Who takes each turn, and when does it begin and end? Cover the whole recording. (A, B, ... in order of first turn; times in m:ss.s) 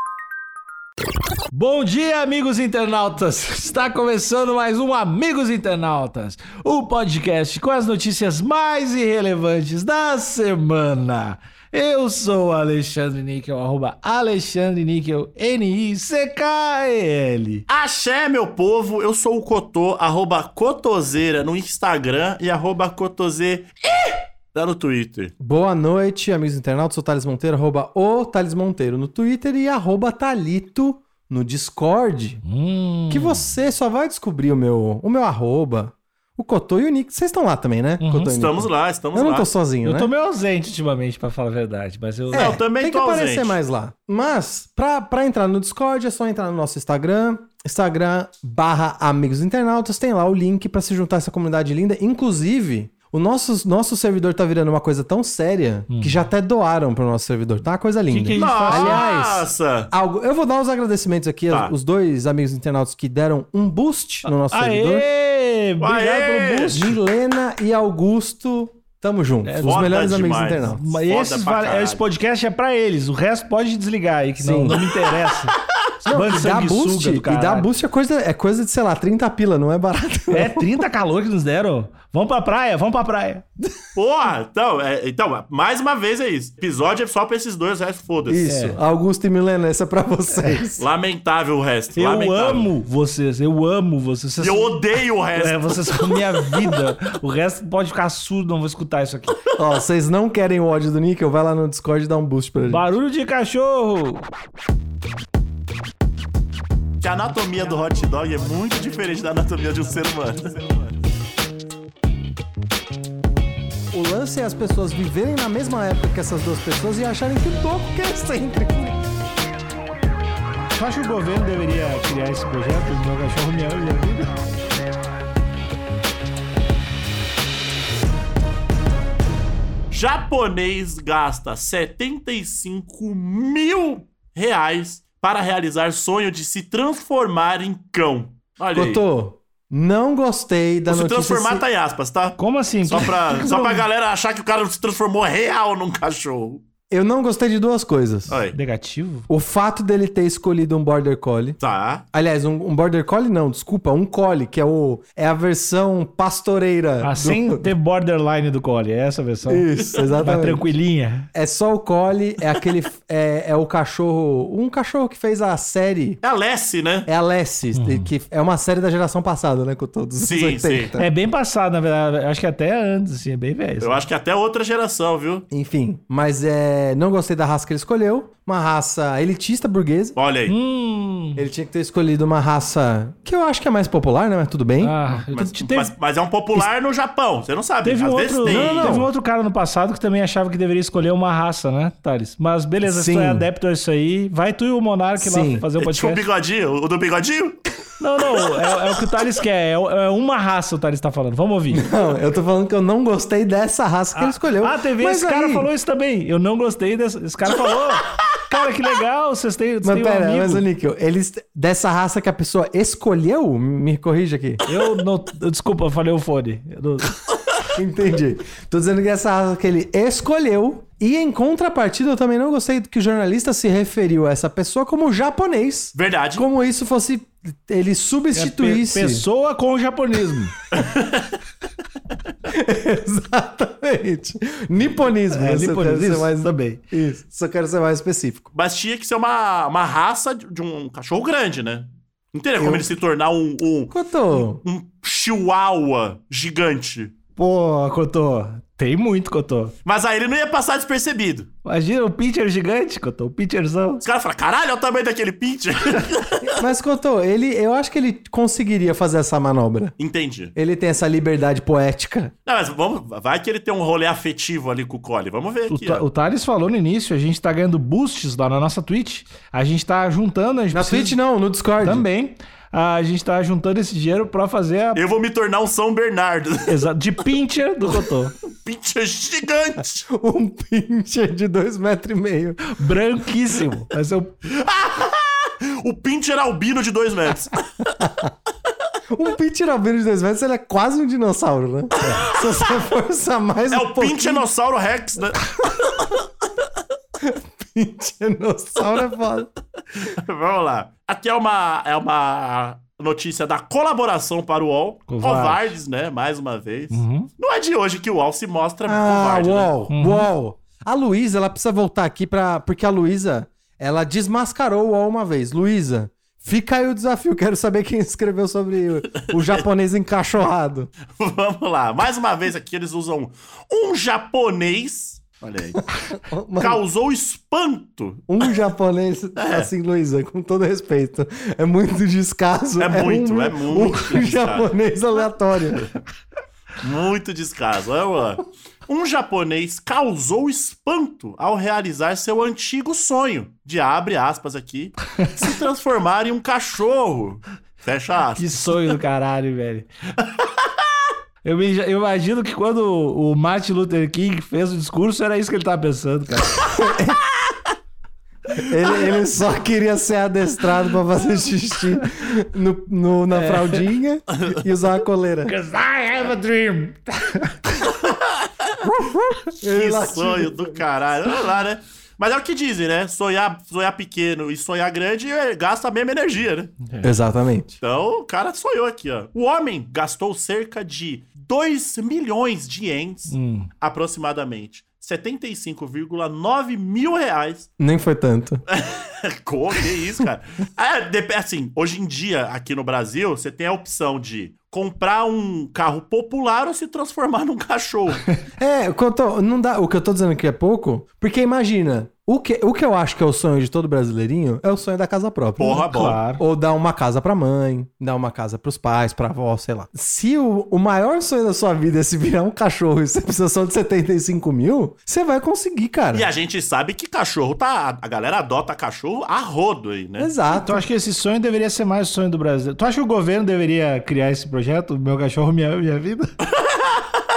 0:01.5-0:17.6 A
0:17.7-0:25.3 B
0:25.4-0:32.4 C
0:32.4-0:33.5 A
0:33.1-0:40.1 C
0:38.0-0:38.3 A
0:38.3-0:39.5 B
0:39.8-0:42.6 A
0:42.3-1:05.0 C
0:42.3-0:43.6 B
0:55.9-0:56.2 A
0:58.1-0:59.1 A
0:58.3-0:59.9 B
1:04.3-1:07.0 A
1:05.8-1:06.9 B
1:06.7-1:10.9 C
1:09.4-1:09.9 A
1:09.6-1:12.0 B
1:10.6-1:17.7 A
1:14.4-1:14.8 C
1:16.0-1:20.7 C
1:20.3-1:23.4 A
1:24.0-1:28.4 B
1:28.3-1:30.9 C
1:28.4-1:28.8 A
1:30.8-1:32.7 B
1:32.0-1:34.7 A
1:34.4-1:36.4 B
1:35.3-1:39.4 A
1:39.6-1:42.8 C
1:42.7-1:44.2 A
1:47.0-1:51.0 B
1:53.9-1:59.0 C
2:00.7-2:04.4 A
2:09.9-2:19.0 B
2:18.7-2:21.6 C
2:20.9-2:26.6 B
2:22.4-2:23.2 A
2:23.3-2:23.8 C
2:26.9-2:28.4 C
2:28.3-2:28.6 B
2:28.5-2:29.3 A
2:29.3-2:31.6 C
2:31.6-2:32.0 B
2:32.1-2:37.7 C
2:37.0-2:41.3 A
2:39.5-2:40.7 C
2:41.3-2:46.2 C
2:46.2-2:47.1 B
2:47.0-2:51.1 C
2:47.7-2:48.1 A
2:50.2-2:50.9 B
2:51.0-2:54.0 A
2:53.8-2:55.5 B
2:55.5-3:00.2 C
3:00.2-3:00.5 B
3:00.5-3:01.4 A
3:01.4-3:05.0 C
3:04.8-3:05.9 A
3:05.1-3:09.0 B
3:07.8-3:16.2 A
3:08.4-3:09.1 C
3:12.8-3:13.5 C
3:15.2-3:15.6 C
3:15.8-3:17.6 B
3:18.0-3:21.8 A
3:21.7-3:25.7 C
3:24.1-3:30.6 A
3:29.8-3:34.6 C
3:34.6-3:37.1 A
3:37.7-3:49.2 C
3:45.9-3:46.4 B
3:48.3-3:50.5 A
3:50.7-3:51.4 B
3:52.5-3:58.4 C
3:55.3-3:56.8 A
3:58.5-4:07.1 B
4:02.6-4:02.9 C
4:03.9-4:04.6 C
4:07.4-4:09.7 A
4:09.8-4:11.5 B
4:11.6-4:14.0 A
4:14.0-4:16.6 B
4:16.5-4:19.9 C
4:20.0-4:20.5 B
4:20.6-4:22.3 C
4:22.4-4:26.0 B
4:25.7-4:31.1 A
4:30.7-4:32.0 C
4:31.8-4:35.0 A
4:34.9-4:36.8 B
4:36.6-4:38.3 A
4:38.6-4:40.1 B
4:40.1-4:42.6 C
4:42.6-4:44.3 A
4:44.5-4:47.6 B
4:48.0-4:48.3 C
4:49.1-4:54.4 C
4:52.1-4:52.7 B
4:53.7-4:56.1 B
4:57.2-4:59.5 C
5:00.0-5:09.7 B
5:05.1-5:05.8 A
5:06.9-5:07.3 A
5:08.8-5:20.9 C
5:09.9-5:10.3 A
5:19.2-5:19.6 B
5:21.1-5:25.8 B
5:26.1-5:26.8 C
5:26.6-5:28.5 B
5:28.3-5:35.9 C
5:29.4-5:29.7 B
5:32.8-5:34.7 B
5:36.8-5:48.7 B
5:48.4-5:49.9 A
5:51.4-5:56.7 A
5:56.7-5:57.2 C
5:58.6-6:05.5 C
6:03.3-6:03.8 A
6:04.3-6:04.6 B
6:05.5-6:07.9 A
6:08.0-6:08.8 B
6:08.8-6:10.8 C
6:09.6-6:16.7 B
6:17.0-6:17.8 C
6:17.8-6:27.7 B
6:23.3-6:23.7 A
6:27.8-6:28.6 C
6:28.7-6:38.2 B
6:38.6-6:56.3 C
6:45.6-6:46.2 B
6:45.8-6:46.4 A
6:56.1-7:00.3 B
7:00.2-7:00.8 C
7:00.5-7:06.3 A
7:06.6-7:07.1 B